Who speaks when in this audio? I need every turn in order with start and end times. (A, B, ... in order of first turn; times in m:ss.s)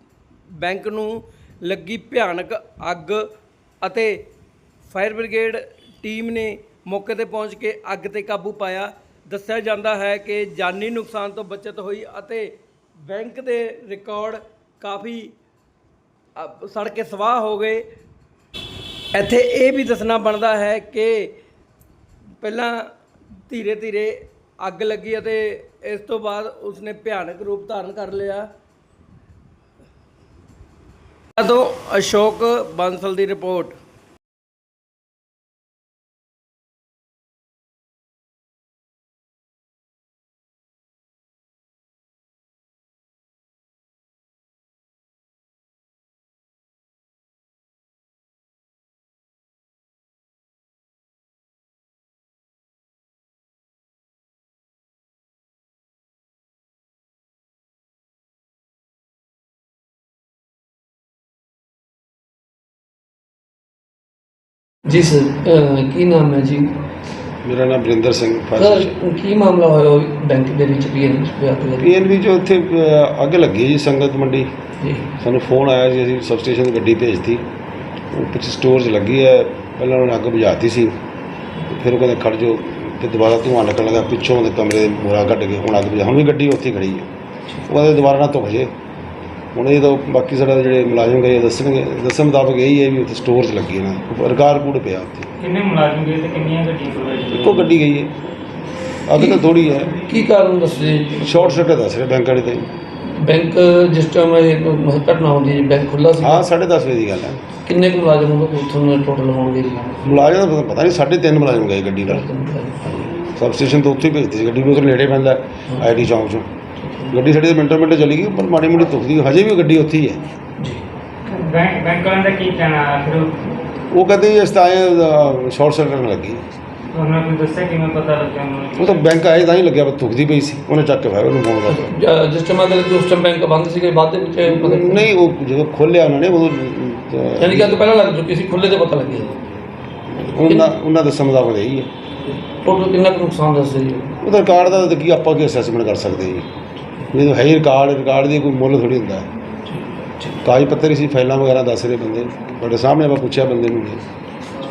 0:00.6-0:03.2 A
0:03.8-0:04.2 A
0:04.9-0:15.3 A
0:16.4-0:17.8 A
0:19.1-0:21.3 A
0:22.4-0:22.9 A
0:23.5-0:28.5 A
0:31.4-0:33.8 A
1:04.9-1:06.7 B
1:07.4-1:09.0 C
1:08.6-1:11.9 B
1:11.8-1:14.5 C
1:14.8-1:15.1 B
1:15.2-1:17.4 C
1:18.1-1:21.0 C
1:21.6-1:27.1 C
1:27.7-1:28.7 C
1:29.5-1:35.3 C
1:35.4-1:37.7 D
1:37.3-1:38.1 C
1:39.1-1:40.0 C
1:39.2-1:39.4 B
1:40.0-1:41.5 B
1:41.2-1:42.7 C
1:43.0-1:46.4 B
1:46.2-1:47.4 C
1:47.6-1:49.9 B
1:50.0-1:52.2 C
1:52.1-1:53.1 B
1:53.2-1:56.5 C
1:55.7-1:56.1 B
1:56.8-1:57.1 B
1:57.1-2:00.2 C
2:01.3-2:03.6 D
2:03.9-2:06.4 C
2:06.9-2:09.1 D
2:08.8-2:11.9 C
2:11.7-2:15.1 B
2:14.4-2:17.8 C
2:17.4-2:19.4 B
2:20.1-2:21.9 C
2:20.4-2:20.7 B
2:22.3-2:24.1 B
2:24.2-2:26.5 C
2:27.1-2:29.3 C
2:29.6-2:30.4 B
2:30.4-2:34.0 C